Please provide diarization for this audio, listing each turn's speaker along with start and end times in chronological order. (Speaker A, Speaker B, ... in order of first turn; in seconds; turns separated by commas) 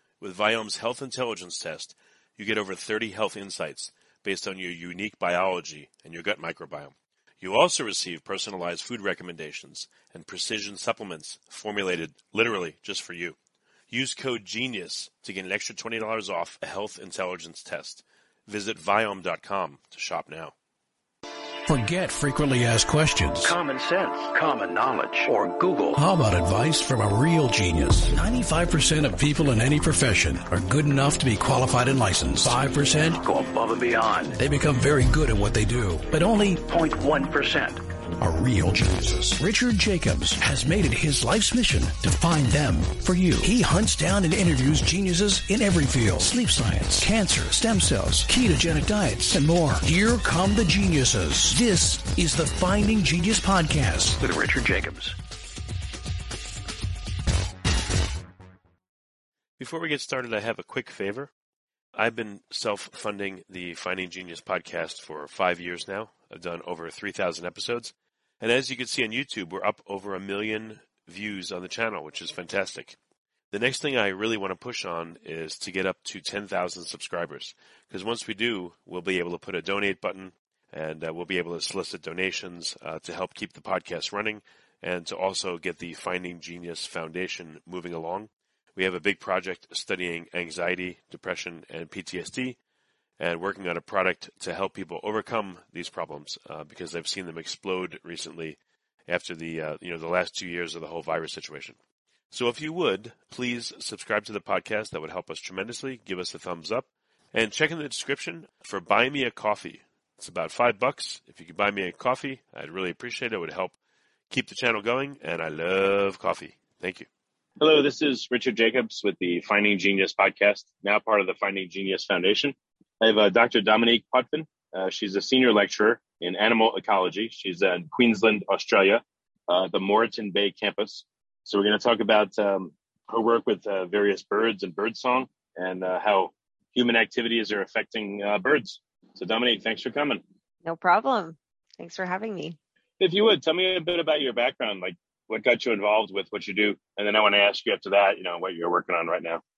Speaker A: 0.2-13.3, Speaker A: 13.9-20.5, Speaker B: 21.6-23.6, Speaker C: 23.4-26.0, Speaker B: 25.9-33.2, Speaker C: 33.2-34.4, Speaker B: 34.4-36.7, Speaker C: 36.6-37.8, Speaker B: 38.2-54.3, Speaker C: 54.2-55.1, Speaker A: 59.6-61.3, Speaker A: 61.9-73.0, Speaker A: 73.5-92.6, Speaker A: 93.2-101.8, Speaker A: 102.3-113.7, Speaker A: 114.3-117.1, Speaker D: 117.6-140.2, Speaker E: 140.6-142.6, Speaker D: 143.0-149.4